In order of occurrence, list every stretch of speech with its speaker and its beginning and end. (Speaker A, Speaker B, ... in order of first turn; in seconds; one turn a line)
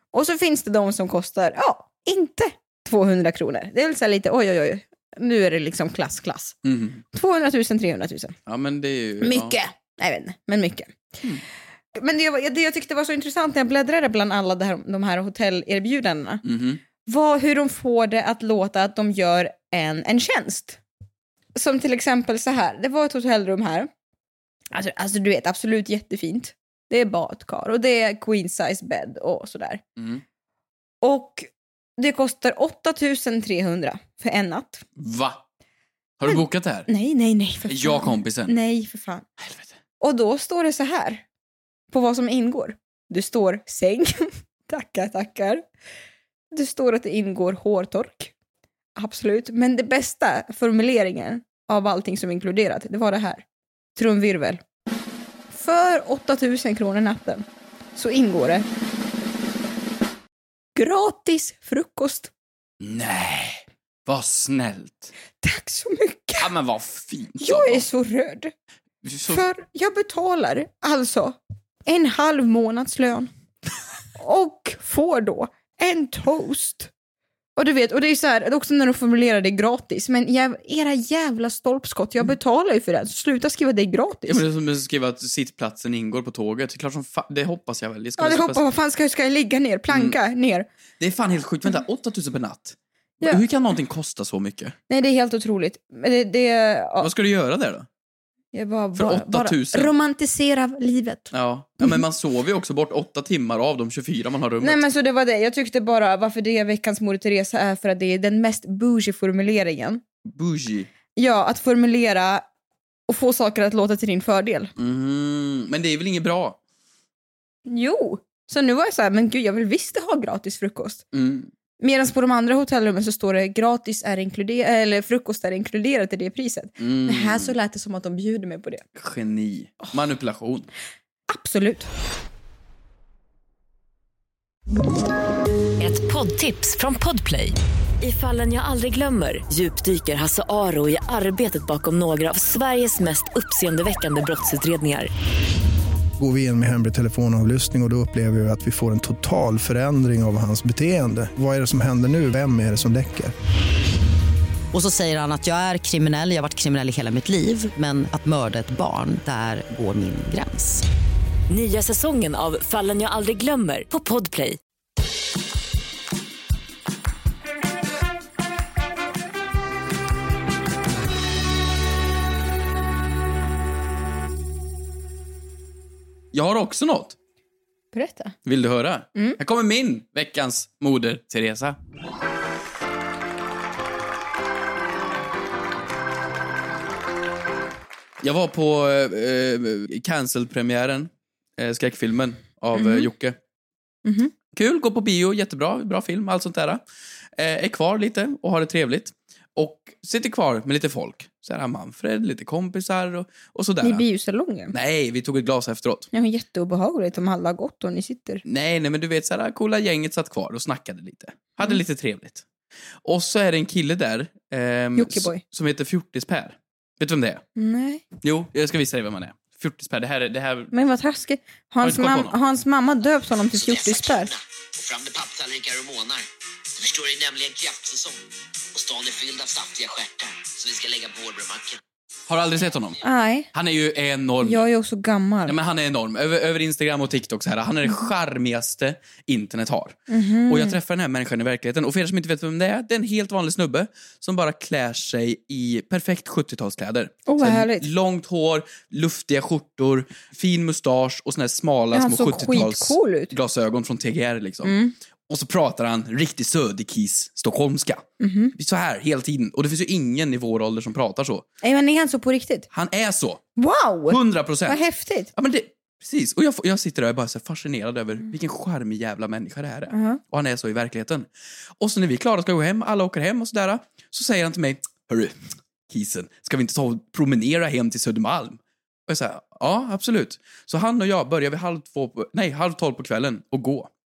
Speaker A: 0.1-6.6
Speaker B: 6.7-7.0
Speaker A: 7.1-8.3
Speaker B: 8.5-9.6
Speaker A: 9.2-11.0
Speaker A: 12.0-16.4
Speaker B: 16.4-16.8
Speaker A: 17.1-20.8
Speaker A: 21.6-23.9
Speaker A: 24.7-29.8
Speaker B: 30.0-30.2
Speaker A: 31.0-34.9
Speaker B: 35.0-35.4
Speaker B: 36.2-36.9
Speaker A: 36.3-39.3
Speaker B: 37.7-38.5
Speaker A: 40.0-41.2
Speaker A: 41.9-45.6
Speaker A: 46.5-48.3
Speaker A: 49.0-53.4
Speaker A: 54.0-54.6
Speaker A: 55.5-58.7
Speaker A: 60.8-62.3
Speaker B: 62.8-65.1
Speaker A: 65.4-66.5
Speaker B: 66.4-67.8
Speaker A: 67.4-68.5
Speaker B: 69.0-69.4
Speaker A: 69.3-73.3
Speaker A: 74.2-76.9
Speaker A: 77.6-84.4
Speaker B: 84.3-88.6
Speaker A: 88.2-90.7
Speaker B: 89.9-90.2
Speaker B: 91.0-94.8
Speaker A: 94.9-97.1
Speaker B: 97.0-97.9
Speaker A: 98.5-102.0
Speaker B: 99.0-99.9
Speaker B: 101.3-104.8
Speaker A: 104.6-110.0
Speaker B: 110.3-110.9
Speaker A: 111.2-112.5
Speaker A: 113.1-114.7
Speaker B: 114.8-116.6
Speaker A: 117.7-121.0
Speaker B: 121.1-121.5
Speaker A: 121.8-128.8
Speaker B: 126.8-127.5
Speaker B: 129.0-130.7
Speaker A: 131.3-131.9
Speaker C: 135.8-145.1
Speaker D: 146.2-153.3
Speaker E: 154.7-160.8
Speaker C: 161.5-164.6
Speaker B: 176.3-177.2
Speaker A: 177.9-178.3
Speaker B: 178.5-181.8
Speaker B: 188.2-193.4
Speaker A: 192.8-193.1
Speaker A: 194.1-194.3
Speaker B: 194.5-196.8
Speaker B: 197.4-204.0
Speaker A: 203.8-204.7
Speaker B: 204.7-206.1
Speaker A: 206.1-208.4
Speaker B: 208.4-212.4
Speaker B: 213.0-217.4
Speaker A: 214.9-215.4
Speaker A: 217.6-218.0
Speaker B: 218.2-220.7
Speaker A: 220.7-224.3
Speaker B: 221.8-222.4
Speaker F: 223.5-226.3
Speaker F: 226.8-231.8
Speaker B: 232.3-233.0
Speaker A: 233.0-233.5
Speaker B: 233.5-234.6
Speaker A: 234.4-235.6
Speaker B: 235.5-254.8
Speaker A: 240.1-240.8
Speaker A: 247.3-247.9
Speaker A: 251.9-253.3
Speaker A: 254.6-254.9
Speaker B: 255.3-261.4
Speaker A: 258.2-258.5
Speaker A: 261.6-262.7
Speaker B: 262.7-263.4
Speaker A: 263.6-265.3
Speaker B: 264.1-264.8
Speaker B: 265.3-271.3
Speaker A: 269.9-270.2
Speaker B: 271.8-275.4
Speaker B: 275.9-283.9